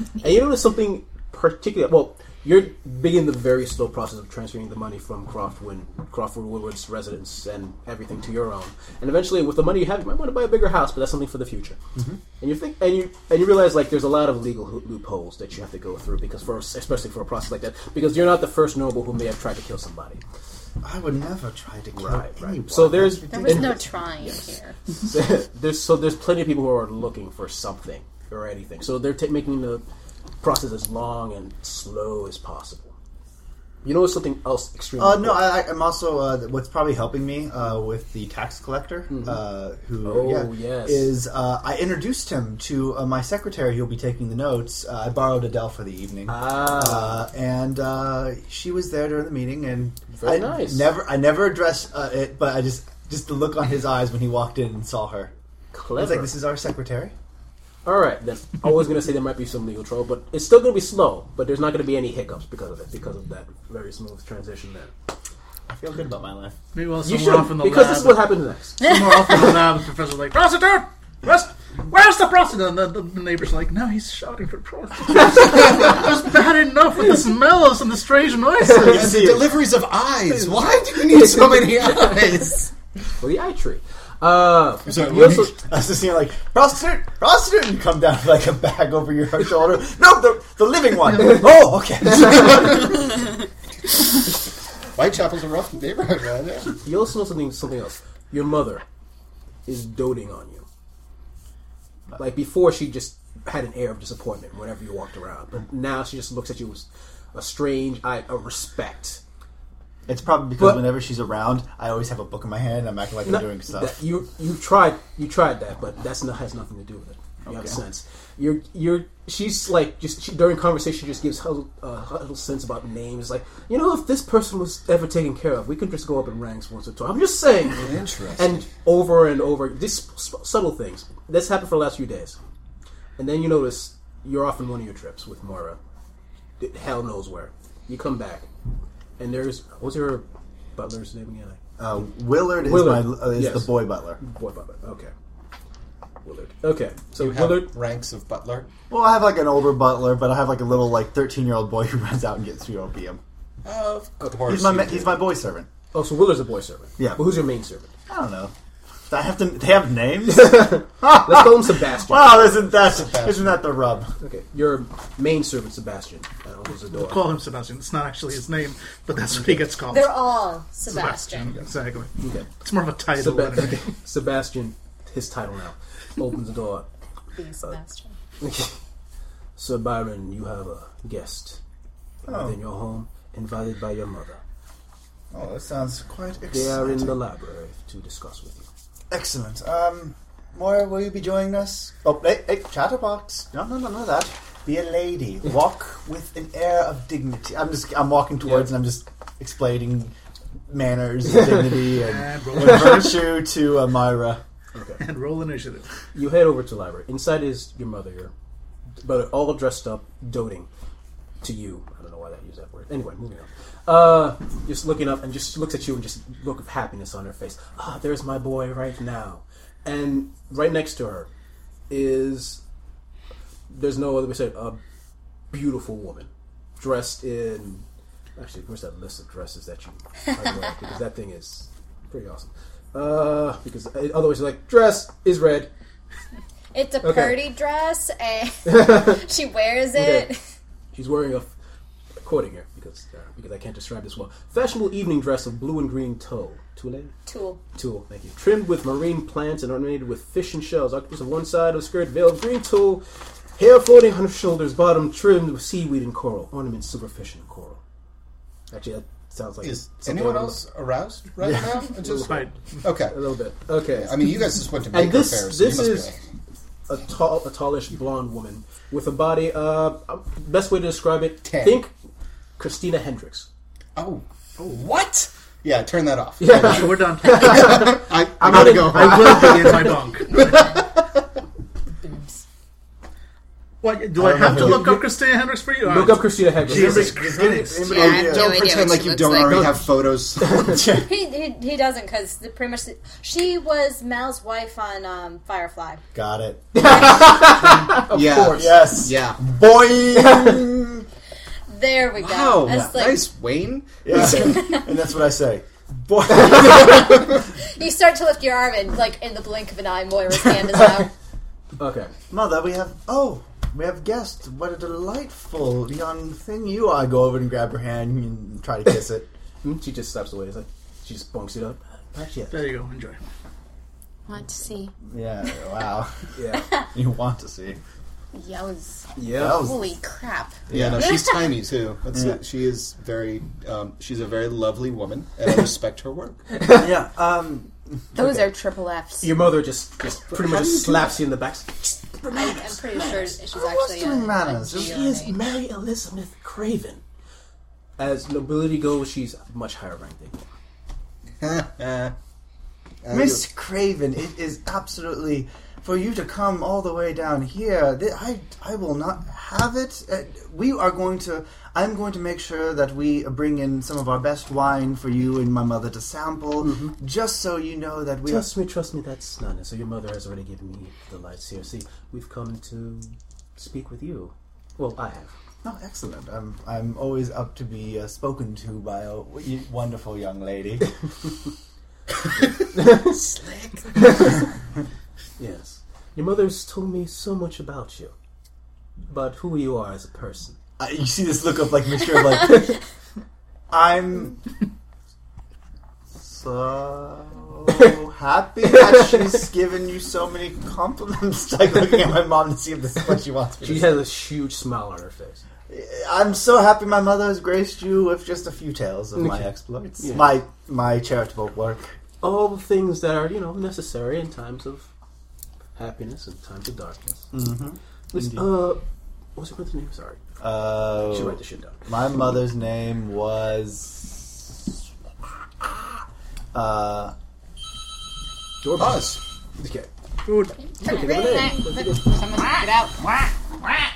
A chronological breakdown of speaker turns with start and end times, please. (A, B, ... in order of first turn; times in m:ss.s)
0:00.2-0:11.8 A
0:11.9-0:12.2 B
0:12.4-0:20.2 A
0:20.8-0:23.8 B
0:22.0-0:24.4 A
0:23.3-0:24.8 C
0:24.9-0:29.8 A
0:30.4-0:32.9 A
0:33.8-0:35.5 A
0:35.0-0:55.3 B
0:39.1-0:39.4 A
0:40.0-0:41.1 A
0:46.3-0:47.2 A
0:50.1-0:50.9 A
0:55.7-0:56.3 A
0:56.0-0:57.1 B
0:57.8-1:04.9 A
1:05.7-1:06.6 B
1:06.7-1:08.2 D
1:07.0-1:08.8 A
1:08.8-1:19.1 D
1:18.6-1:19.1 A
1:18.8-1:22.7 E
1:18.8-1:19.5 B
1:20.3-1:22.6 A
1:23.2-1:25.6 A
1:24.8-1:25.5 E
1:25.5-1:33.0 B
1:31.1-1:31.4 D
1:31.2-1:31.5 A
1:32.0-1:32.7 A
1:34.9-1:36.7 E
1:36.8-1:38.8 A
1:39.6-1:40.6 A
1:42.2-1:49.2 A
1:50.1-1:54.0 B
1:50.6-1:51.0 A
1:53.2-2:12.4 A
1:57.4-1:57.8 B
2:07.8-2:08.6 E
2:13.2-2:15.8 A
2:16.6-2:18.5 A
2:19.2-2:20.2 A
2:20.8-2:21.6 A
2:21.8-2:24.2 B
2:22.5-2:25.1 A
2:26.2-2:27.7 A
2:27.2-2:28.7 E
2:28.9-2:33.2 B
2:33.6-2:35.2 E
2:34.5-2:35.7 B
2:35.9-2:37.9 A
2:37.0-2:37.3 B
2:38.1-2:38.5 B
2:39.1-2:44.1 B
2:40.3-2:42.9 A
2:42.8-2:43.6 E
2:44.2-2:47.3 A
2:46.9-2:50.3 D
2:49.3-2:49.6 A
2:49.9-2:51.6 C
2:50.9-2:53.8 D
2:52.2-2:52.5 A
2:53.1-2:56.9 A
2:57.3-2:58.1 C
2:58.4-2:58.7 A
2:59.6-3:01.6 A
3:02.2-3:04.4 A
3:02.2-3:02.6 B
3:05.3-3:07.2 B
3:06.5-3:08.7 A
3:09.1-3:20.1 B
3:18.4-3:18.7 A
3:20.7-3:24.4 B
3:22.0-3:23.0 D
3:24.7-3:25.0 A
3:25.0-3:25.9 D
3:26.1-3:28.3 A
3:29.0-3:30.7 A
3:31.4-3:41.3 A
3:41.9-3:42.6 A
3:43.7-3:44.8 A
3:45.5-3:47.8 A
3:48.4-3:55.7 A
3:56.7-4:00.4 C
3:57.0-3:57.5 A
3:58.6-3:59.2 A
3:59.9-4:00.3 A
4:00.9-4:01.5 A
4:02.2-4:07.1 A
4:07.2-4:07.6 C
4:07.7-4:13.0 A
4:13.6-4:17.8 A
4:18.7-4:20.6 A
4:19.6-4:23.1 E
4:21.4-4:21.6 B
4:22.0-4:22.6 A
4:22.1-4:22.5 D
4:23.1-4:26.1 A
4:23.9-4:26.2 E
4:26.9-4:31.9 A
4:31.4-4:31.8 E
4:32.6-4:33.5 A
4:34.0-4:40.8 E
4:36.4-4:40.0 A
4:36.5-4:40.6 D
4:42.0-4:42.4 C
4:43.8-4:47.9 D
4:44.2-4:45.0 B
4:44.6-4:44.9 A
4:45.8-4:47.2 A
4:46.7-4:48.6 B
4:47.8-4:49.8 F
4:47.9-4:50.8 E
4:50.4-4:50.7 A
4:50.6-4:51.1 B
4:50.9-4:56.0 C
4:56.1-5:01.0 B
4:56.7-4:58.9 A
4:58.1-4:59.4 E
5:01.7-5:03.2 C
5:02.2-5:04.8 E
5:02.6-5:02.9 B
5:04.0-5:07.3 B
5:06.8-5:11.1 C
5:11.8-5:12.1 A
5:12.3-5:19.3 B
5:19.6-5:22.6 A
5:22.5-5:23.2 D
5:24.3-5:24.9 F
5:25.1-5:27.8 B
5:26.3-5:26.8 A
5:28.3-5:30.6 F
5:29.2-5:29.6 A
5:29.3-5:29.9 B
5:30.7-5:31.2 B
5:30.7-5:36.4 E
5:32.1-5:32.4 B
5:36.5-5:37.0 A
5:36.8-5:38.3 B
5:38.1-5:39.3 F
5:39.2-5:43.4 A
5:40.3-5:41.2 B
5:42.3-5:45.4 C
5:43.5-5:45.2 B
5:44.7-5:47.0 A
5:48.0-5:50.4 A
5:51.4-5:52.1 E
5:53.0-5:53.4 E
5:53.1-6:08.5 B
6:06.6-6:06.9 A
6:08.2-6:15.3 A
6:15.6-6:20.9 B
6:22.7-6:23.2 A
6:23.3-6:23.7 E
6:23.9-6:24.4 A
6:25.4-6:28.1 A
6:29.1-6:30.6 A
6:30.8-6:32.8 B
6:33.7-6:34.4 B
6:36.2-6:44.0 B
6:38.7-6:39.3 A
6:43.6-6:45.4 A
6:45.7-6:51.9 B
6:49.2-6:50.4 A
6:52.2-6:54.9 A
6:55.8-6:57.3 A
6:57.3-6:58.5 B
6:58.1-6:58.8 A
6:59.4-7:00.2 A
7:00.4-7:04.6 B
7:00.8-7:01.8 A
7:06.5-7:07.1 B
7:08.6-7:09.9 A
7:08.8-7:09.2 E
7:10.2-7:10.6 D
7:10.8-7:12.0 A
7:10.8-7:12.9 C
7:10.8-7:12.9 F